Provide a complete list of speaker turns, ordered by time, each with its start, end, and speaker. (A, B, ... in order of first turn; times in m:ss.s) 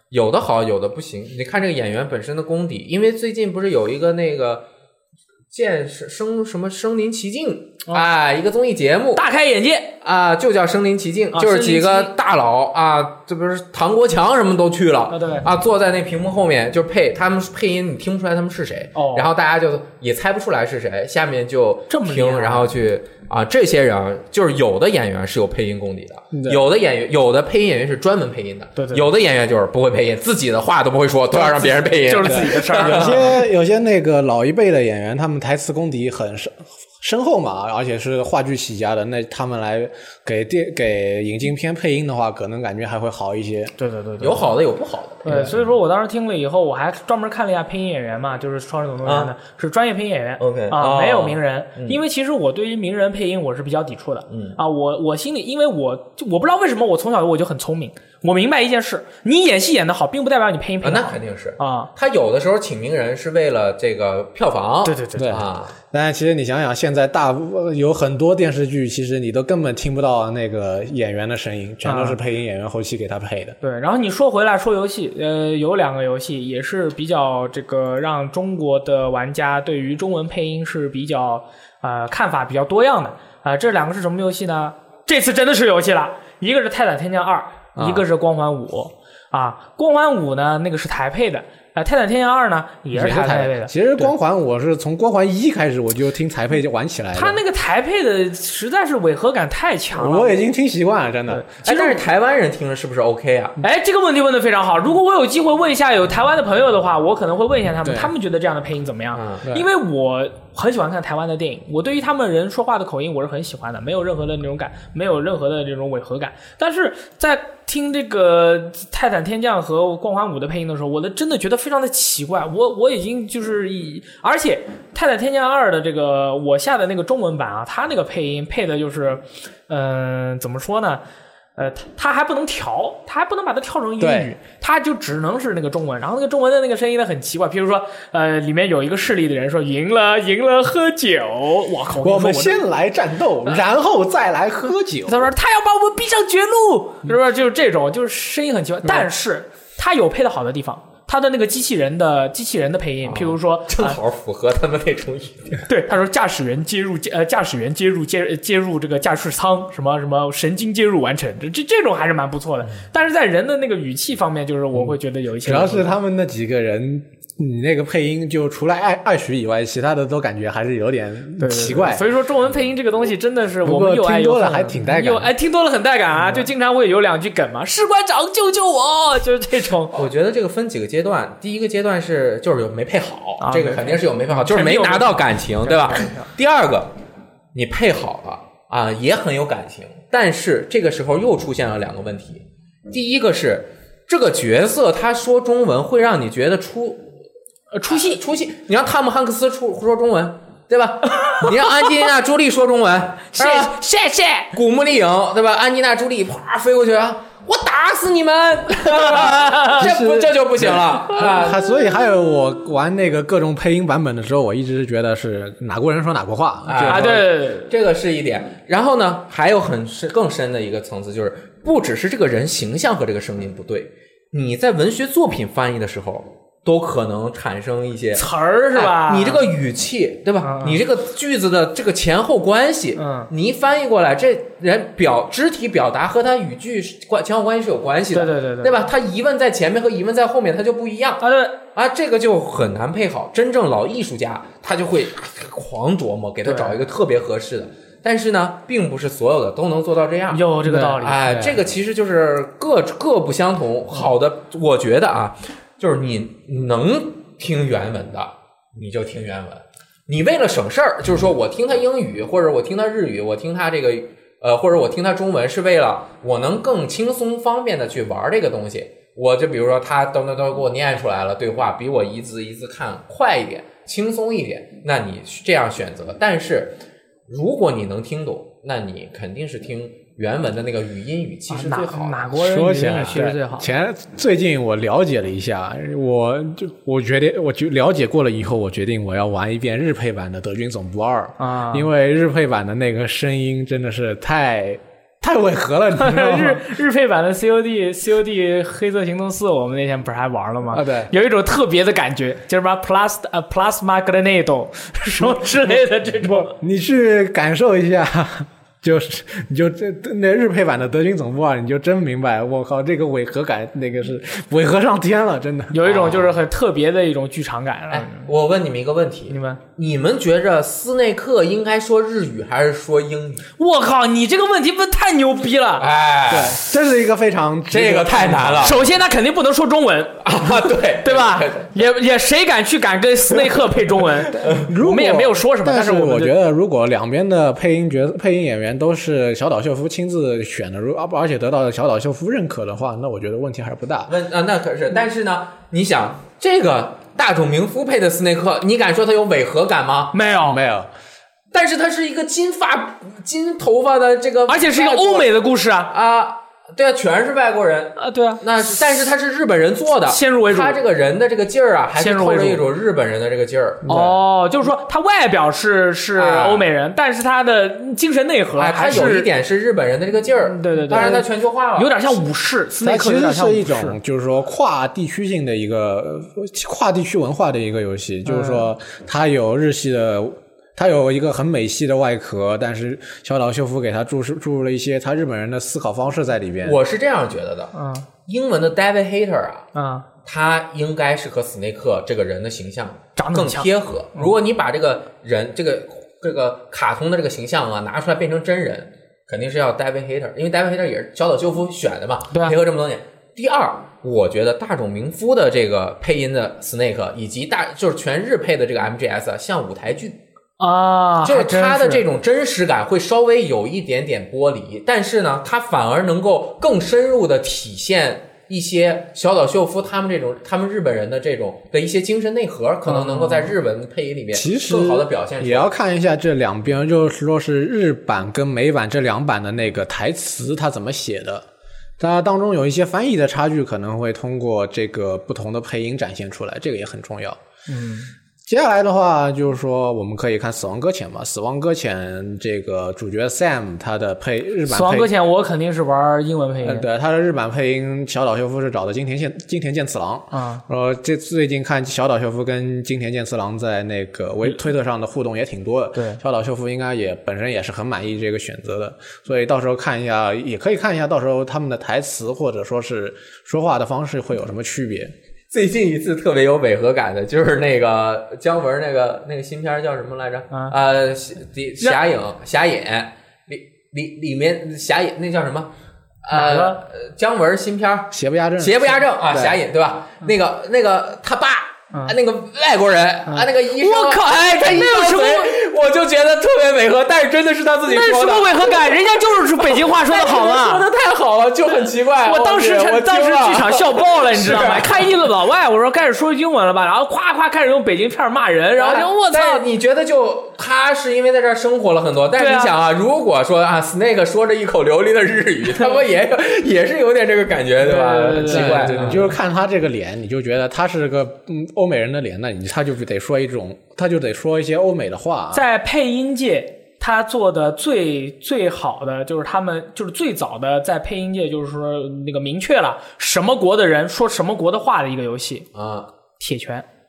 0:00.1-0:04.6 A
0:05.5-0:09.2 A
0:09.2-0:09.9 B
0:10.0-0:33.3 A
0:11.3-0:12.1 B
0:15.1-0:15.4 B
0:18.9-0:19.3 B
0:21.9-0:22.7 B
0:26.3-0:26.6 C
0:28.8-0:29.1 B
0:31.6-0:33.4 B
0:32.2-0:43.7 C
0:43.8-0:44.5 B
0:44.2-0:45.6 A
0:45.2-1:01.9 B
0:49.0-0:49.3 A
0:50.4-0:52.0 A
0:54.3-0:54.6 A
1:00.8-1:05.7 A
1:04.8-1:05.4 B
1:05.2-1:13.6 C
1:11.8-1:12.2 B
1:13.6-1:34.1 B
1:27.8-1:28.0 C
1:32.9-1:37.4 C
1:37.1-1:40.4 B
1:39.9-1:41.4 C
1:41.3-1:42.0 B
1:41.6-1:43.6 A
1:43.6-2:11.0 B
1:47.8-1:48.1 C
1:49.1-1:49.5 A
2:11.6-2:22.6 B
2:14.0-2:14.3 C
2:22.0-2:25.2 C
2:25.0-2:34.0 B
2:33.0-2:35.6 A
2:35.7-2:45.9 B
2:44.7-2:52.0 C
2:51.4-3:00.0 B
2:53.6-2:55.3 C
2:59.9-3:06.9 A
3:03.4-3:06.3 B
3:07.5-3:17.1 A
3:17.7-3:18.2 B
3:17.9-3:23.7 A
3:21.2-3:21.8 B
3:23.3-3:24.5 B
3:24.5-3:31.7 A
3:28.8-3:29.8 B
3:29.8-3:37.2 C
3:36.6-4:01.2 A
3:36.8-3:37.7 B
3:48.1-3:49.5 B
3:50.4-3:50.8 B
3:53.0-3:53.3 B
3:58.1-3:58.8 B
4:01.2-4:01.6 B
4:01.7-4:36.8 A
4:06.4-4:06.8 B
4:10.3-4:11.4 B
4:10.7-4:11.5 C
4:37.3-4:42.3 A
4:41.5-4:43.7 B
4:42.4-4:56.6 C
4:51.4-4:51.9 B
4:56.0-5:06.5 B
5:00.7-5:01.1 C
5:06.2-5:15.8 C
5:15.7-5:18.3 B
5:15.8-5:16.4 A
5:17.9-5:23.4 A
5:19.3-5:19.6 B
5:23.6-5:25.9 B
5:25.8-5:26.6 A
5:26.3-5:28.8 C
5:27.7-5:28.8 A
5:28.6-5:36.3 B
5:30.2-5:31.7 A
5:34.6-5:44.1 C
5:44.1-5:50.1 A
5:50.1-5:50.6 B
5:50.4-5:50.9 C
5:51.5-5:55.3 A
5:54.5-5:55.9 B
5:55.9-6:04.0 A
5:58.0-5:58.8 B
6:00.1-6:00.8 B
6:02.0-6:02.6 B
6:03.8-6:04.2 C
6:03.9-6:09.3 B
6:06.2-6:06.7 A
6:08.6-6:12.2 A
6:10.4-6:14.0 B
6:12.8-6:26.8 C
6:18.2-6:18.7 B
6:26.6-6:27.7 A
6:27.7-6:28.1 B
6:28.3-6:29.6 A
6:29.7-6:30.1 B
6:30.2-6:50.2 A
6:33.2-6:34.3 B
6:42.3-6:42.6 B
6:50.6-6:52.0 B
6:51.2-7:05.7 A
7:02.9-7:03.5 B
7:04.3-7:11.4 C
7:12.0-7:17.4 C
7:17.7-7:18.1 B
7:18.4-7:25.1 C
7:24.7-7:26.8 B
7:26.6-7:45.1 C
7:30.3-7:30.6 B
7:35.9-7:36.2 B
7:45.5-7:55.7 A
7:56.2-8:15.1 A
7:56.3-7:56.8 B
7:58.1-7:59.6 C
8:01.9-8:02.2 B
8:03.3-8:05.5 B
8:07.8-8:10.8 B
8:12.2-8:19.6 B
8:18.8-8:29.4 A
8:22.4-8:22.7 B
8:27.8-8:29.3 B
8:28.4-8:35.6 C
8:35.5-8:45.7 B
8:45.7-8:46.1 A
8:46.4-8:46.8 B